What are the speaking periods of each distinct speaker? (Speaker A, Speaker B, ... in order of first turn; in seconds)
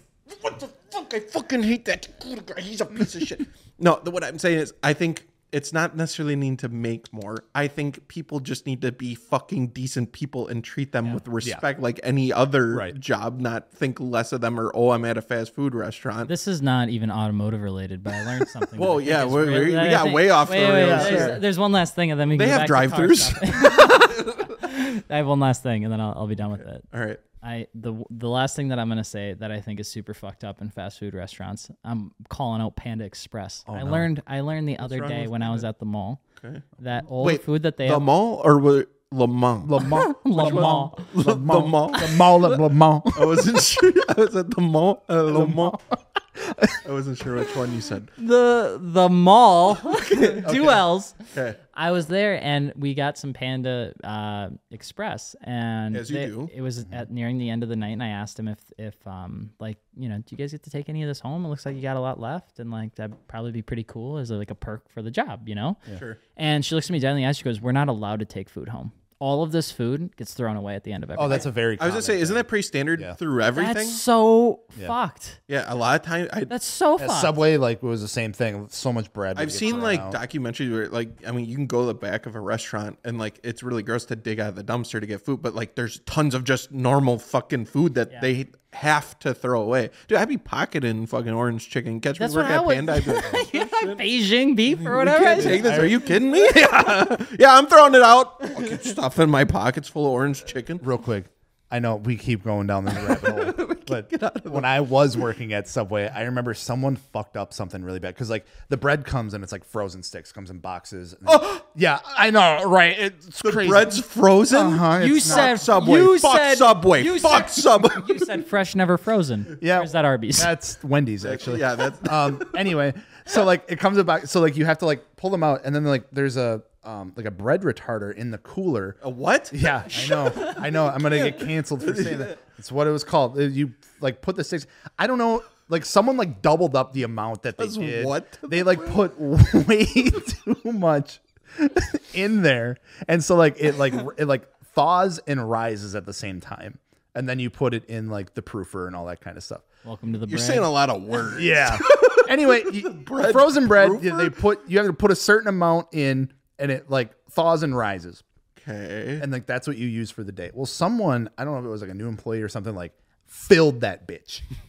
Speaker A: 0.3-16.3, 18.8-21.4, 22.3-24.6, 26.9-27.2, 34.8-35.7, 36.4-36.6, 37.2-42.6, 43.1-45.8, 46.8-48.1, 49.8-51.6, 55.9-56.5, 65.9-66.2, 71.8-74.0, 75.5-76.5, 79.3-94.0, 94.8-100.8, 102.9-104.7, 111.3-111.6, 113.4-118.4, 121.2-122.6, 129.0-130.6, 131.8-132.4, 137.6-139.0, 150.3-154.4, 158.6-159.3
Speaker B: 16.3-26.9, 27.4-36.2, 36.8-38.0, 39.8-41.1, 48.2-51.2, 51.7-65.8, 66.4-71.5, 73.5-75.4, 76.5-77.3, 92.2-95.8, 115.0-120.5, 130.0-130.6, 149.8-150.7
Speaker C: 20.8-21.4, 33.7-34.1, 39.6-43.5, 45.3-46.8, 71.2-73.2, 77.0-80.2, 95.4-97.1, 100.8-114.0, 114.5-115.7, 119.6-129.0, 129.5-149.7, 151.3-158.2, 159.2-164.4